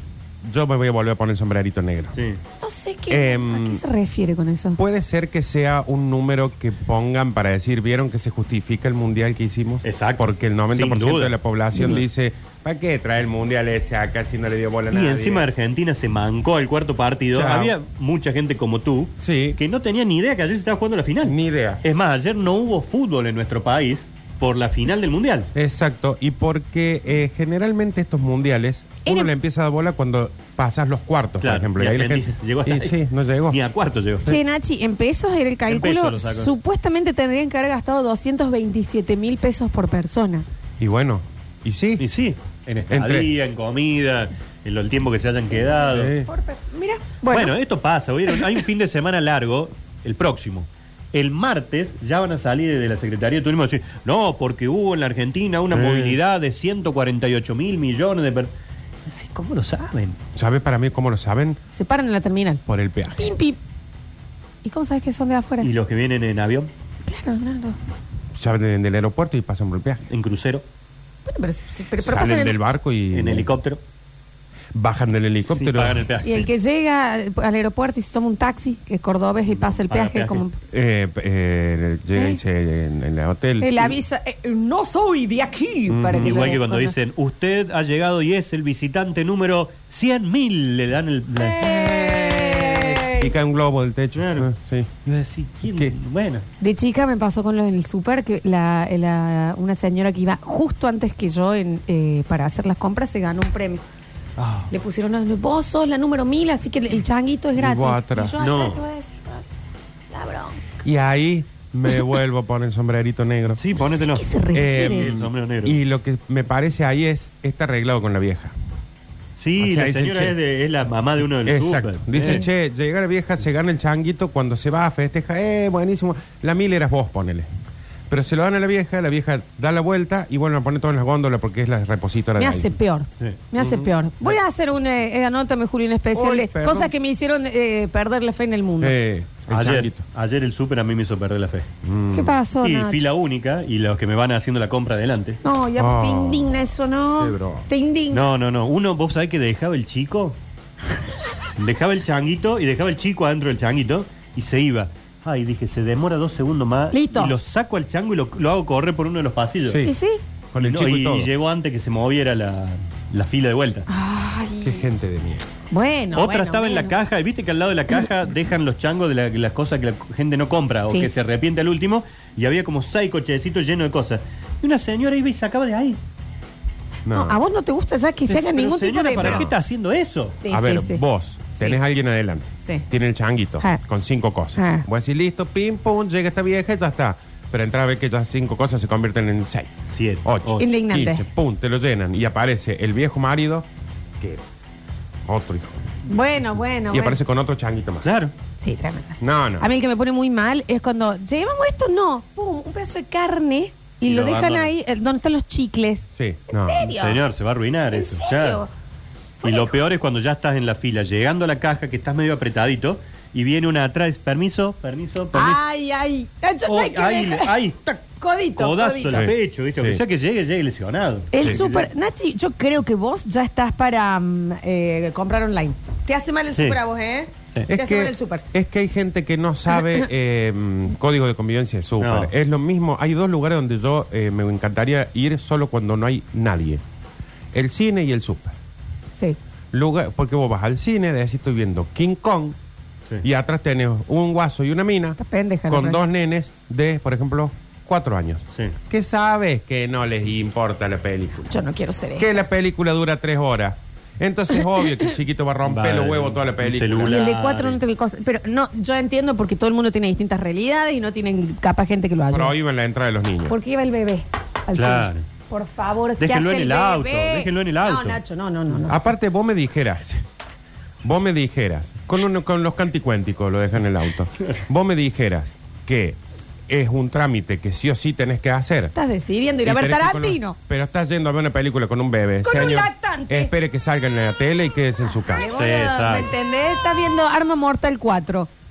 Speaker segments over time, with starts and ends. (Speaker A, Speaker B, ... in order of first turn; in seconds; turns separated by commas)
Speaker A: 0.4-2.2, Speaker B: 2.6-4.8, Speaker A: 3.1-3.8, Speaker A: 4.8-15.5, Speaker C: 9.8-12.0, Speaker C: 14.9-25.5, Speaker A: 17.3-17.7, Speaker A: 19.2-19.6, Speaker A: 21.2-21.8, Speaker A: 25.5-33.6, Speaker B: 29.0-29.3, Speaker C: 31.4-34.3, Speaker B: 34.2-40.4, Speaker C: 35.7-36.5, Speaker A: 40.8-42.0, Speaker C: 42.0-46.1, Speaker A: 42.9-43.3, Speaker B: 45.4-47.5, Speaker A: 45.9-46.3, Speaker C: 47.3-58.5, Speaker A: 55.7-56.2, Speaker C: 59.0-60.2, Speaker A: 60.3-61.6, Speaker B: 61.7-62.6, Speaker A: 62.6-63.4, Speaker B: 63.2-63.6, Speaker B: 64.6-65.7, Speaker C: 65.6-66.7, Speaker B: 67.1-67.8, Speaker A: 68.3-70.1, Speaker C: 70.1-70.6, Speaker B: 71.2-72.6, Speaker A: 72.0-73.5, Speaker C: 73.1-73.8, Speaker A: 74.7-76.1, Speaker C: 75.5-76.5, Speaker B: 76.2-80.5, Speaker C: 79.5-80.4, Speaker A: 80.7-84.0, Speaker B: 82.1-82.4, Speaker B: 83.6-87.0, Speaker A: 85.9-86.5, Speaker C: 86.2-91.7, Speaker B: 91.3-93.3, Speaker A: 91.6-94.9, Speaker C: 94.1-94.5, Speaker C: 95.0-96.4, Speaker A: 95.6-95.9, Speaker B: 96.6-103.8, Speaker C: 104.4-104.7, Speaker B: 104.7-109.4, Speaker A: 107.6-108.4, Speaker C: 108.4-108.8, Speaker B: 110.1-110.6, Speaker A: 110.8-113.6, Speaker C: 113.6-115.8, Speaker B: 113.8-115.1, Speaker A: 114.5-118.5, Speaker C: 119.4-122.4, Speaker A: 119.6-120.3, Speaker A: 121.4-127.5, Speaker A: 128.1-132.7, Speaker B: 132.4-138.9, Speaker A: 133.6-133.9, Speaker A: 136.1-136.9, Speaker A: 138.8-140.0, Speaker C: 139.5-141.7, Speaker A: 141.8-142.4, Speaker B: 142.1-143.1, Speaker C: 142.6-145.4, Speaker B: 145.4-148.2, Speaker A: 145.8-146.5, Speaker A: 147.2-147.7, Speaker C: 148.1-150.3, Speaker C: 151.6-159.9, Speaker B: 156.9-157.3, Speaker A: 159.7-159.9, Speaker B: 159.8-160.2, Speaker A: 160.5-161.3, Speaker C: 160.6-163.9, Speaker B: 163.9-164.9, Speaker A: 164.6-165.4, Speaker B: 165.7-166.9, Speaker C: 166.1-176.0, Speaker A: 177.1-177.4, Speaker B: 177.1-179.5, Speaker C: 178.3-180.4, Speaker A: 179.2-179.5, Speaker B: 180.4-181.0, Speaker A: 180.5-189.7, Speaker B: 184.6-184.8, Speaker C: 189.9-190.7, Speaker A: 190.2-193.7, Speaker B: 190.6-191.2, Speaker A: 195.3-195.9, Speaker B: 196.1-197.2, Speaker A: 196.9-198.1, Speaker C: 198.0-198.3, Speaker B: 198.6-207.2, Speaker A: 199.2-199.7, Speaker C: 204.0-204.7, Speaker A: 206.1-206.8, Speaker C: 206.9-208.6, Speaker B: 207.9-208.7, Speaker B: 209.4-209.8, Speaker C: 209.4-215.6, Speaker B: 215.3-217.5, Speaker C: 216.7-218.0, Speaker B: 218.2-219.3, Speaker C: 218.6-221.9, Speaker A: 219.1-220.0, Speaker B: 221.3-228.4, Speaker A: 227.7-236.8, Speaker C: 232.0-232.3, Speaker A: 237.5-238.6, Speaker A: 239.7-242.6, Speaker A: 243.2-251.6, Speaker B: 245.2-246.0, Speaker B: 251.5-252.3, Speaker A: 252.2-257.2, Speaker C: 255.6-257.8, Speaker B: 257.0-262.5, Speaker A: 262.3-263.6, Speaker B: 263.5-269.0, Speaker C: 264.7-265.2, Speaker C: 266.2-268.2, Speaker A: 268.9-270.2, Speaker A: 271.0-276.2, Speaker A: 276.7-278.9, Speaker B: 278.9-280.6, Speaker A: 279.6-285.5, Speaker B: 282.4-283.5, Speaker B: 285.3-288.5, Speaker C: 285.5-286.3